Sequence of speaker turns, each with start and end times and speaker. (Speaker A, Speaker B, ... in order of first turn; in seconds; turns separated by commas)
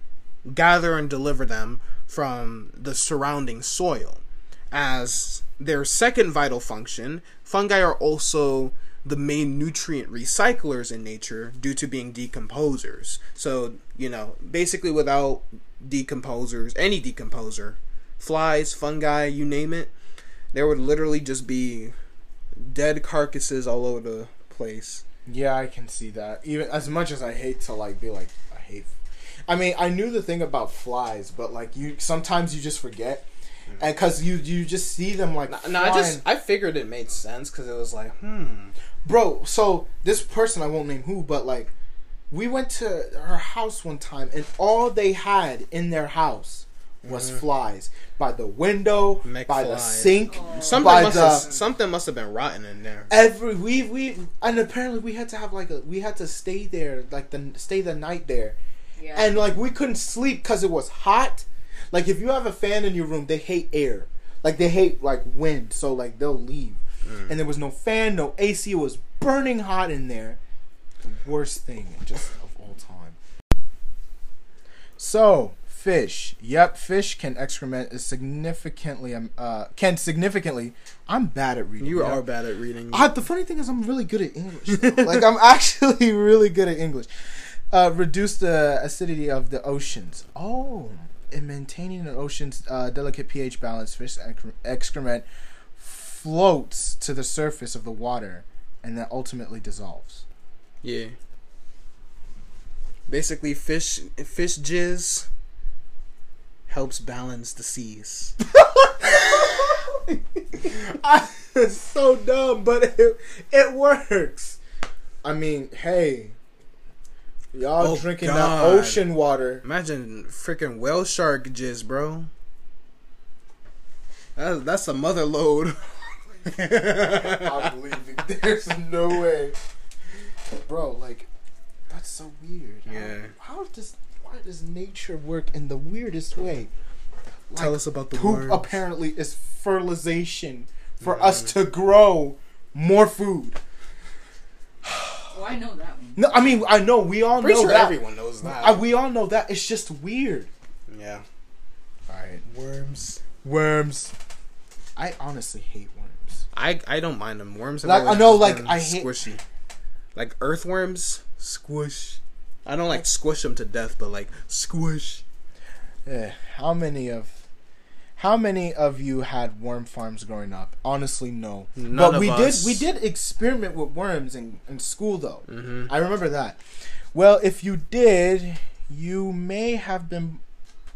Speaker A: 0.5-19.9, Speaker A: 20.5-21.9, Speaker A: 22.6-25.0, Speaker B: 25.3-28.9, Speaker B: 29.5-33.3, Speaker B: 33.8-36.2, Speaker A: 35.5-38.7, Speaker B: 39.0-41.7, Speaker B: 42.3-51.5, Speaker A: 47.0-47.4, Speaker A: 49.2-53.1, Speaker C: 50.2-51.8, Speaker B: 53.1-58.6, Speaker C: 59.0-59.5, Speaker B: 59.1-70.4, Speaker A: 67.0-67.4, Speaker B: 71.0-73.2, Speaker B: 75.0-82.2, Speaker A: 81.8-83.2, Speaker B: 82.9-87.1, Speaker A: 84.7-85.2, Speaker B: 87.7-100.2, Speaker A: 100.8-101.2, Speaker A: 103.1-105.3, Speaker A: 106.7-108.4, Speaker B: 108.5-110.0, Speaker B: 110.5-114.6, Speaker B: 115.2-116.4, Speaker B: 117.5-119.6, Speaker A: 117.8-122.3, Speaker A: 124.4-127.7, Speaker B: 126.9-129.6, Speaker B: 130.5-131.3, Speaker B: 131.9-136.7, Speaker A: 132.9-133.3, Speaker B: 137.5-143.6, Speaker A: 137.6-138.8, Speaker A: 141.0-141.6, Speaker B: 144.8-145.3, Speaker C: 145.3-146.3, Speaker B: 146.2-150.5, Speaker A: 147.3-148.8, Speaker A: 150.9-151.2, Speaker B: 152.1-152.4, Speaker A: 152.4-153.2, Speaker B: 153.4-154.1, Speaker B: 155.0-156.4, Speaker A: 156.5-159.4, Speaker B: 157.8-159.1, Speaker A: 160.2-165.2, Speaker B: 166.1-167.3, Speaker B: 168.2-176.6, Speaker A: 171.8-172.9, Speaker A: 175.5-175.9, Speaker B: 177.1-180.4